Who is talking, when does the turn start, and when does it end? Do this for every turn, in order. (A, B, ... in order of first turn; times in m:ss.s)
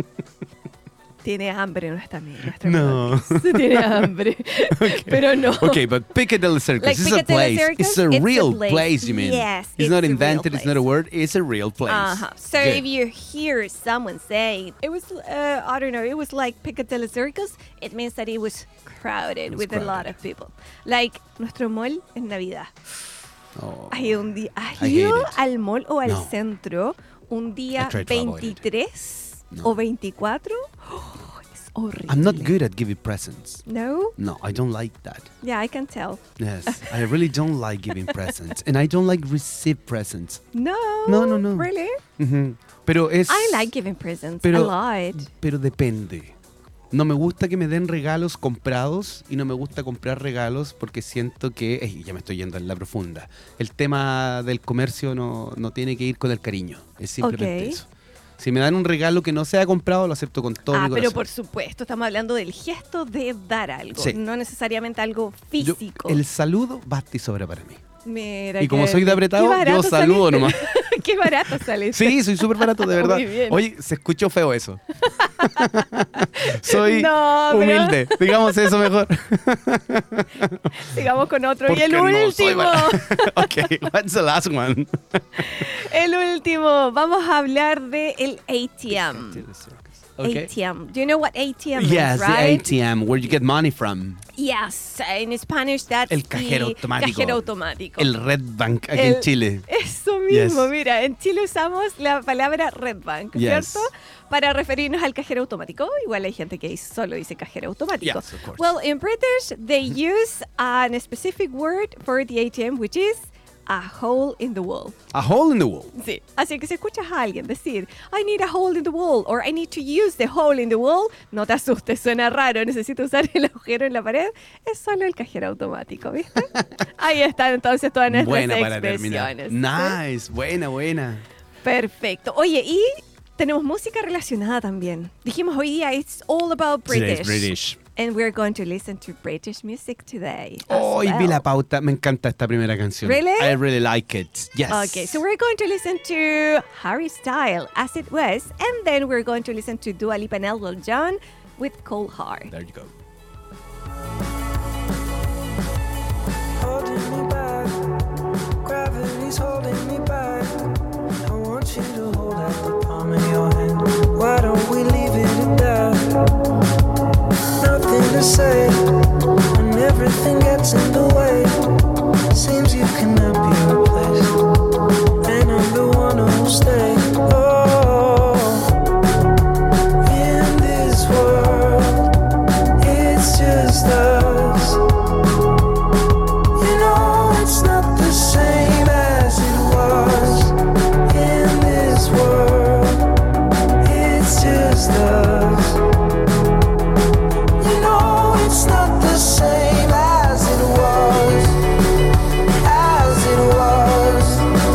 0:01.2-0:05.8 A
0:02.6-0:04.1 B
0:04.7-0:12.9 B
0:06.8-0:10.8 A
0:11.9-0:22.7 A
0:19.5-0:20.2 B
0:23.6-0:25.4 B
0:23.9-0:32.6 A
0:26.0-0:26.3 B
0:27.8-0:28.6 B
0:29.5-0:29.8 B
0:32.1-0:33.6 B
0:33.6-0:34.1 A
0:34.2-0:35.3 B
0:35.4-0:37.0 A
0:36.4-0:40.4 B
0:40.5-0:42.0 A
0:41.0-0:43.7 B
0:43.3-0:45.3 A
0:44.4-0:46.3 B
0:46.9-1:01.2 B
0:57.2-0:57.8 A
1:00.7-1:06.2 A
1:05.6-1:07.8 B
1:08.0-1:13.6 A
1:08.6-1:10.8 B
1:11.9-1:20.8 B
1:15.1-1:18.8 A
1:20.8-1:23.7 A
1:21.7-1:25.7 B
1:25.4-1:29.4 A
1:28.9-1:30.5 B
1:30.2-1:32.7 A
1:31.8-1:34.2 B
1:34.4-1:38.1 A
1:36.1-1:39.7 B
1:38.9-1:55.0 A
1:40.3-1:40.7 B
1:43.3-1:43.9 B
1:48.0-1:48.8 B
1:55.1-1:55.9 B
1:55.9-2:10.0 A
2:08.1-2:11.2 B
2:11.6-2:21.4 A
2:16.9-2:17.8 B
2:20.7-2:25.2 B
2:23.0-2:23.6 A
2:24.7-2:32.5 A
2:32.5-2:32.9 B
2:36.6-2:37.9 C
2:38.6-2:46.3 C
2:47.6-2:51.8 C
2:52.3-2:54.4 C
2:55.2-2:58.7 C
3:00.0-3:02.1 C
3:02.8-3:04.8 C
3:06.6-3:13.1 C
3:13.8-3:15.8 C
3:17.6-3:21.6 C
3:22.6-3:24.5 C